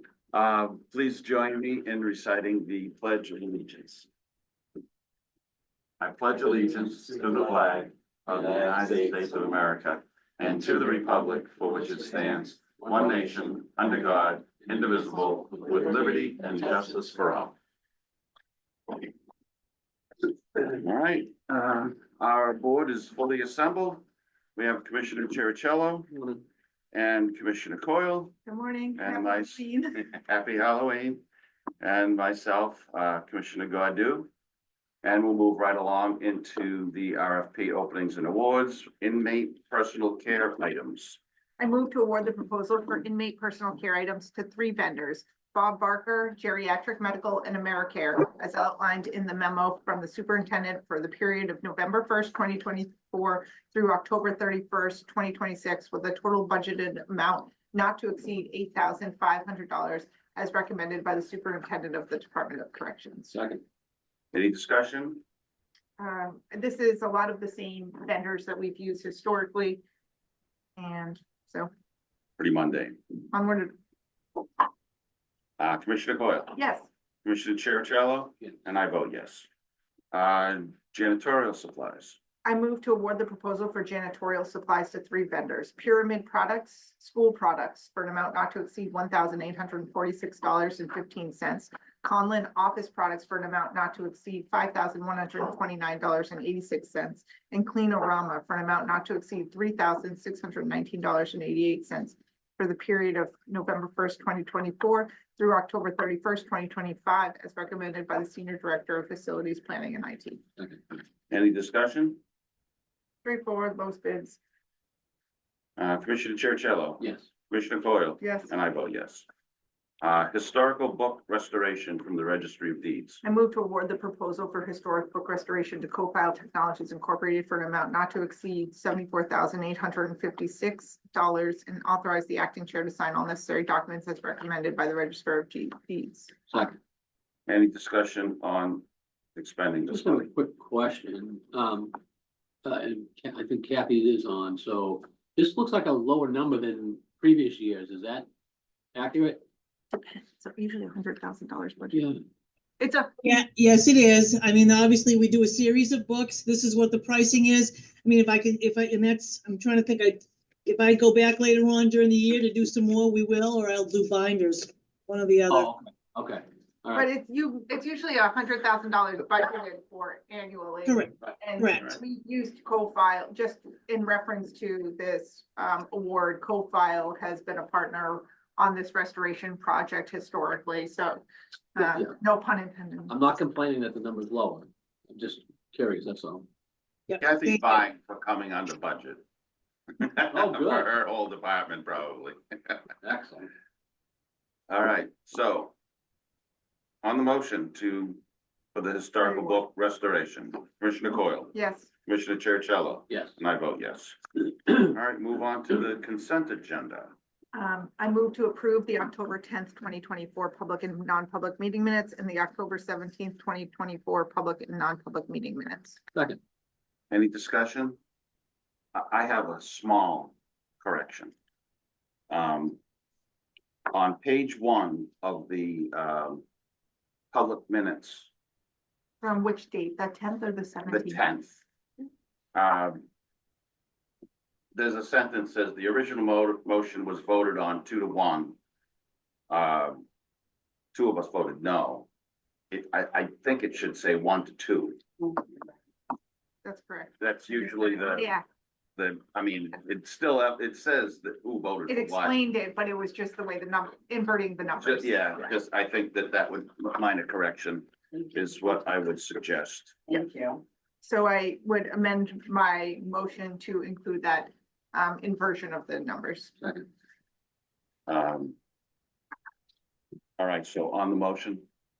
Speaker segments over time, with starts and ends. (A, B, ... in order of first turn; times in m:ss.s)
0:00.3-0:04.1 A
0:06.0-0:17.6 A
0:20.6-0:24.0 A
0:24.6-0:26.2 A
0:26.9-0:28.4 A
0:28.5-0:30.0 B
0:29.0-0:31.2 A
0:31.8-0:34.3 A
0:35.0-0:41.2 A
0:41.6-1:03.3 B
1:03.3-1:03.6 C
1:04.3-1:05.2 A
1:06.0-1:09.8 B
1:10.8-1:11.7 B
1:12.4-1:13.0 A
1:13.3-1:13.8 B
1:15.6-1:16.6 A
1:16.6-1:16.9 B
1:17.2-1:19.5 A
1:20.1-1:22.2 A
1:22.4-1:50.4 B
1:51.3-1:52.2 A
1:53.2-1:54.4 B
1:55.8-1:59.3 A
1:58.2-1:58.5 B
2:00.0-2:03.2 A
2:03.2-2:16.4 B
2:16.5-2:16.8 C
2:17.5-2:20.3 A
2:19.9-2:22.0 C
2:22.6-2:28.3 C
2:28.9-2:29.4 C
2:29.9-2:32.0 B
2:31.9-2:32.2 C
2:32.8-2:33.2 B
2:33.2-2:45.7 D
2:45.5-2:47.1 C
2:47.0-3:01.2 B
2:50.9-2:51.9 D
2:51.7-2:52.0 A
3:01.8-3:03.2 B
3:03.1-3:06.5 C
3:07.1-3:07.6 D
3:07.2-3:09.2 A
3:10.0-3:12.8 A
3:10.3-3:10.9 C
3:13.0-3:13.5 C
3:14.7-3:15.7 A
3:17.0-3:18.2 A
3:18.8-3:21.6 A
3:19.2-3:19.6 B
3:21.5-3:21.9 B
3:22.1-3:27.1 A
3:23.1-3:23.4 C
3:27.5-3:36.0 B
3:36.1-3:36.4 C
3:37.1-3:38.0 A
3:38.9-3:41.3 A
3:42.3-3:42.8 A
3:43.9-3:46.4 A
3:47.3-3:48.3 A
3:49.2-3:51.3 B
3:50.9-3:51.6 A
3:52.6-3:53.0 A
3:54.8-3:58.6 A
3:59.5-4:00.1 A
4:00.9-4:02.1 A
4:02.7-4:05.0 A
4:06.6-4:08.4 B
4:07.2-4:08.3 A
4:09.0-4:12.4 A
4:11.9-4:15.5 B
4:14.8-4:20.0 A
4:21.0-4:26.7 B
4:28.1-4:28.6 A
4:30.4-4:31.7 A